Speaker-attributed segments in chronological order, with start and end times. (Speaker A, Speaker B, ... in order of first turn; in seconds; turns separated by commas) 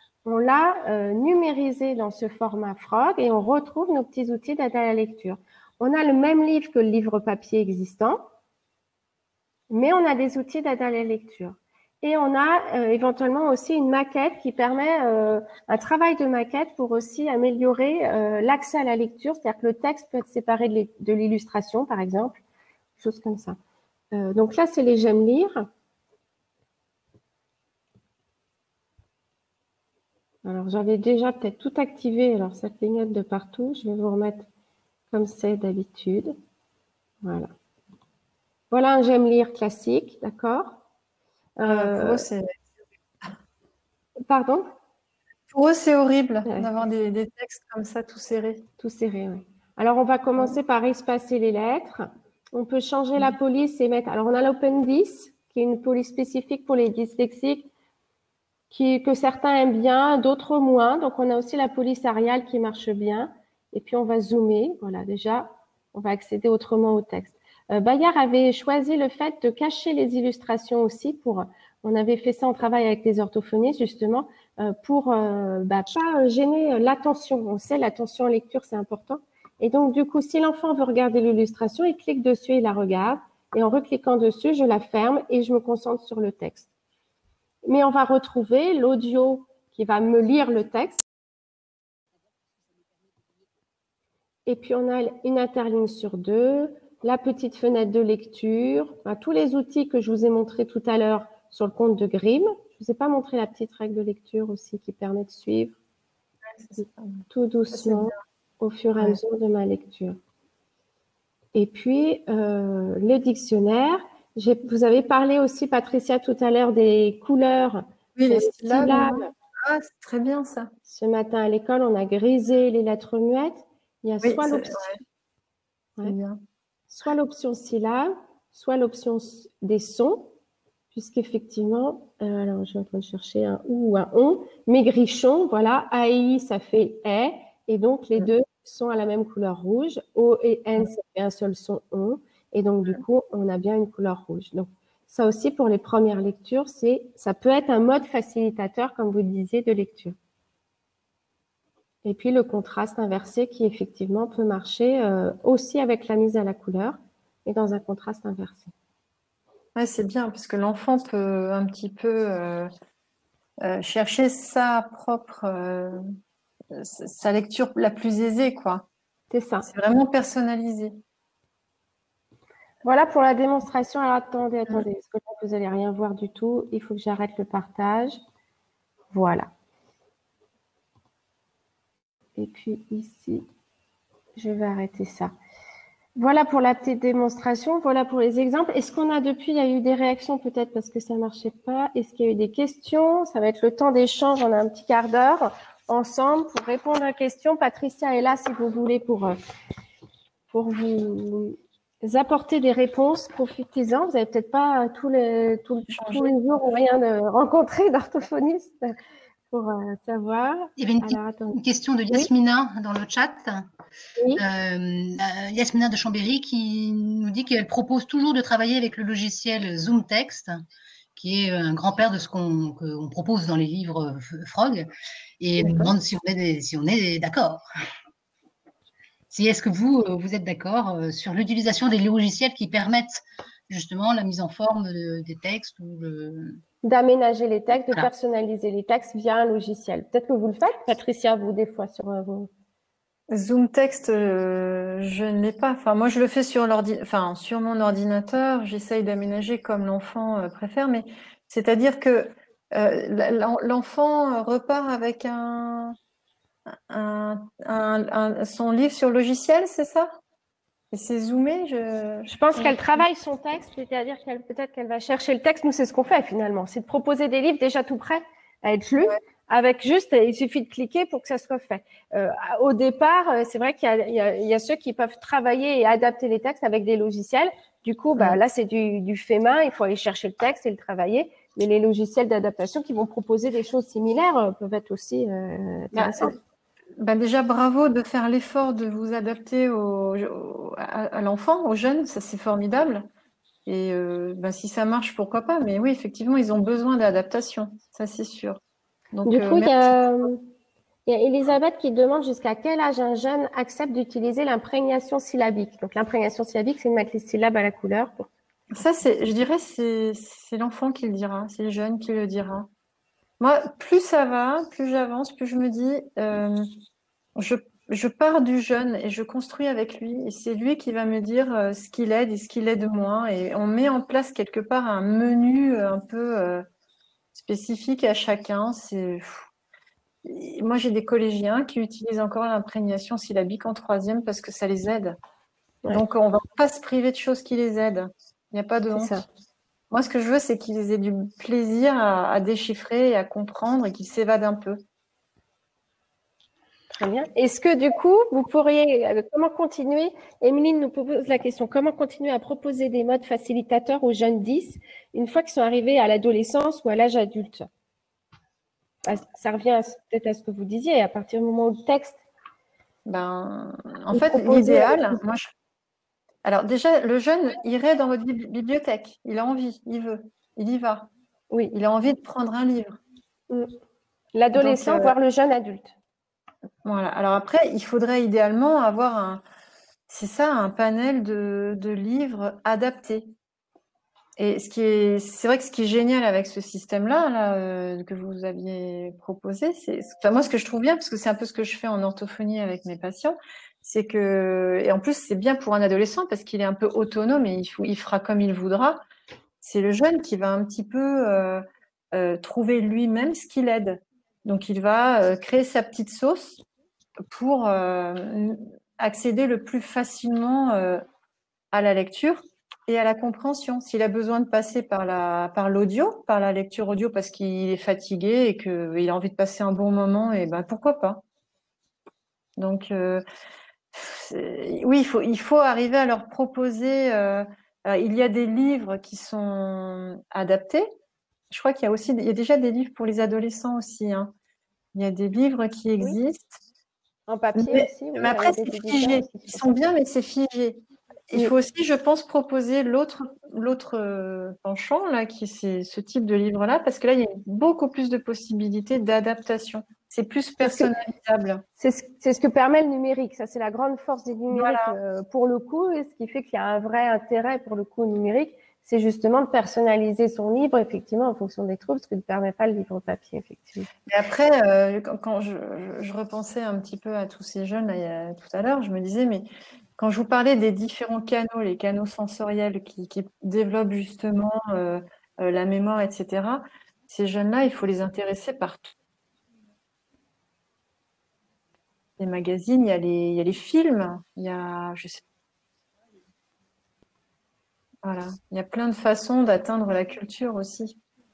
Speaker A: 0.2-8.2, Speaker A: 9.7-22.4, Speaker A: 23.0-23.6, Speaker A: 24.1-25.7, Speaker A: 30.4-34.5, Speaker A: 35.1-36.4, Speaker A: 37.2-37.5, Speaker A: 38.7-40.8, Speaker A: 41.6-42.3, Speaker B: 41.7-42.6, Speaker A: 44.2-44.7, Speaker B: 45.5-48.6, Speaker A: 48.8-57.7, Speaker A: 58.7-86.7, Speaker A: 87.7-91.0, Speaker A: 94.5-105.8, Speaker B: 106.5-108.2, Speaker A: 107.3-110.2, Speaker A: 111.5-119.3, Speaker B: 118.2-120.7, Speaker A: 120.9-125.0, Speaker B: 124.2-125.0, Speaker B: 126.0-126.4, Speaker A: 126.9-130.3, Speaker A: 130.9-150.2, Speaker A: 152.1-158.7, Speaker B: 159.8-162.7, Speaker B: 163.6-166.2, Speaker B: 166.7-168.9, Speaker A: 169.3-169.7, Speaker B: 169.7-171.0, Speaker A: 172.8-178.2, Speaker A: 179.1-179.5, Speaker A: 182.4-183.5, Speaker A: 184.4-185.3, Speaker A: 186.2-199.4, Speaker A: 200.5-209.0, Speaker B: 205.9-206.4, Speaker A: 209.5-211.6, Speaker C: 210.8-213.7, Speaker A: 214.2-214.4, Speaker C: 214.4-220.7, Speaker C: 221.2-224.9, Speaker C: 225.4-227.7, Speaker A: 225.6-225.9, Speaker C: 229.3-236.6, Speaker A: 236.8-242.5, Speaker B: 243.3-255.9, Speaker B: 256.7-260.1, Speaker B: 260.9-263.0, Speaker A: 262.3-286.4, Speaker B: 285.9-286.4, Speaker B: 287.0-293.1, Speaker B: 293.7-298.6, Speaker B: 299.1-300.3, Speaker A: 299.3-300.4, Speaker A: 301.1-308.3, Speaker B: 308.7-312.7, Speaker B: 313.4-316.7, Speaker B: 317.4-326.7, Speaker B: 327.3-329.5, Speaker B: 330.2-335.2, Speaker B: 335.9-339.2, Speaker A: 338.9-339.2, Speaker B: 339.9-344.8, Speaker A: 346.9-357.7, Speaker A: 359.1-362.2, Speaker B: 363.1-365.5, Speaker A: 364.1-365.2, Speaker B: 366.4-371.1, Speaker B: 371.7-373.0, Speaker A: 374.4-375.9, Speaker B: 374.5-375.1, Speaker B: 376.9-379.4, Speaker B: 380.1-383.3, Speaker B: 384.4-399.0, Speaker B: 399.6-406.6, Speaker B: 407.3-411.0, Speaker B: 411.7-421.2, Speaker B: 422.6-423.2, Speaker B: 423.9-430.9, Speaker B: 431.5-434.3, Speaker B: 434.9-436.6, Speaker A: 437.3-439.8, Speaker B: 437.6-451.6, Speaker A: 450.6-450.9, Speaker A: 451.8-463.9, Speaker B: 454.5-455.0, Speaker B: 464.1-469.5, Speaker B: 470.0-478.9, Speaker B: 482.2-485.2, Speaker B: 488.0-491.0